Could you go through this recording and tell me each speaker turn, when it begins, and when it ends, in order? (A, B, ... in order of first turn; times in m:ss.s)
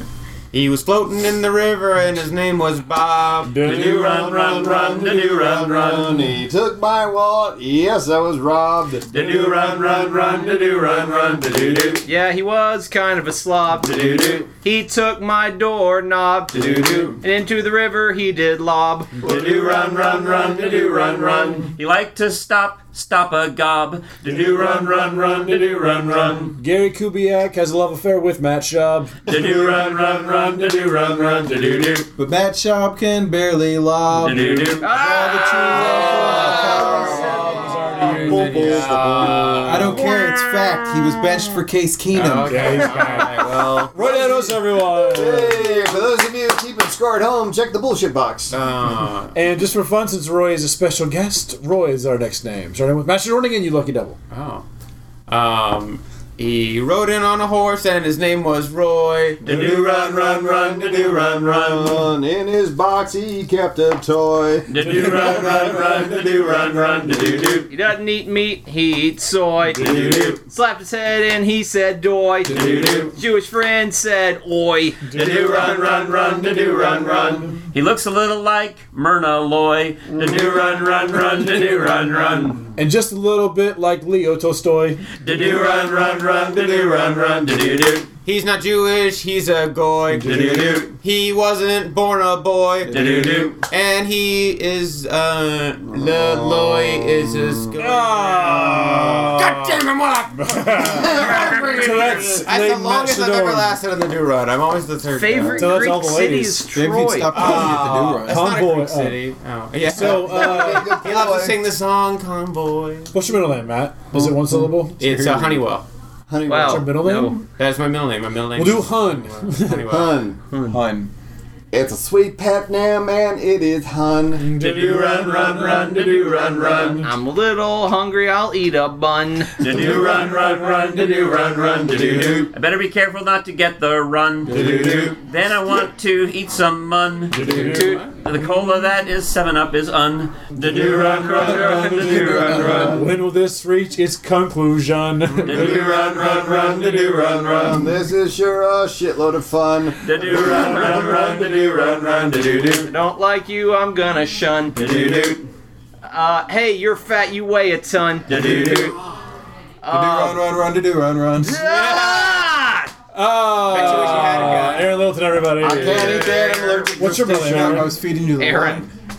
0:00.5-0:03.6 A
0:03.4-0:04.0 B
0:03.6-0:06.2 C
0:03.6-0:09.5 D
0:09.1-0:12.0 C
0:12.0-0:19.2 E
0:13.8-0:14.4 C
0:16.5-0:17.2 C
0:19.2-0:26.5 C
0:26.5-0:29.1 B
0:29.2-0:32.1 C
0:32.2-0:37.4 F
0:34.2-0:34.9 C
0:34.4-0:34.7 B
0:34.8-0:37.5 E
0:35.7-0:38.9 B
0:36.0-0:40.0 D
0:38.1-0:40.1 A
0:39.6-0:43.0 F
0:39.9-0:41.4 E
0:42.1-0:43.9 A
0:42.4-0:45.9 B
0:43.6-0:48.6 D
0:48.5-0:49.3 A
0:49.3-0:54.2 B
0:54.3-0:54.6 A
0:55.3-0:59.4 A
0:59.4-1:05.2 D
0:59.4-1:02.0 C
1:04.7-1:07.7 C
1:04.8-1:05.3 B
1:07.7-1:15.2 E
1:09.8-1:10.4 C
1:12.5-1:13.1 C
1:15.0-1:15.6 B
1:15.1-1:22.6 C
1:22.8-1:25.0 B
1:25.2-1:28.1 C
1:28.2-1:33.0 A
1:30.2-1:30.7 B
1:30.2-1:30.9 C
1:32.9-1:33.6 C
1:33.6-1:45.8 A
1:35.9-1:37.6 D
1:37.8-1:39.2 B
1:40.3-1:43.8 B
1:41.0-1:42.4 D
1:45.1-1:47.6 E
1:45.6-1:46.7 B
1:46.7-1:48.6 F
1:47.3-1:53.3 A
1:47.4-1:51.0 B
1:50.0-1:51.7 D
1:53.1-1:55.1 B
1:54.2-1:55.9 A
1:55.0-1:55.7 F
1:56.3-1:56.9 D
1:56.4-1:57.4 E
1:56.6-1:57.4 B
1:57.5-2:00.2 A
1:58.5-2:00.0 B
1:59.9-2:00.4 D
2:00.5-2:00.8 E
2:00.7-2:01.1 F
2:01.7-2:05.8 D
2:04.4-2:05.9 B
2:04.5-2:07.1 C
2:07.0-2:09.7 E
2:09.6-2:23.0 C
2:12.1-2:12.4 D
2:14.5-2:15.1 B
2:17.3-2:18.0 B
2:17.6-2:18.1 E
2:17.6-2:18.0 A
2:21.8-2:25.7 B
2:25.4-2:27.7 C
2:25.4-2:31.9 D
2:30.0-2:32.9 C
2:32.8-2:35.2 E
2:34.8-2:35.4 C
2:36.1-2:39.0 E
2:38.3-2:38.9 C
2:39.8-2:40.5 E
2:39.9-2:41.6 F
2:41.4-2:42.9 E
2:43.1-2:46.4 B
2:43.6-2:45.1 A
2:45.6-2:47.7 A
2:45.6-2:47.0 D
2:46.9-2:48.0 B
2:47.0-2:48.9 F
2:48.4-2:48.9 E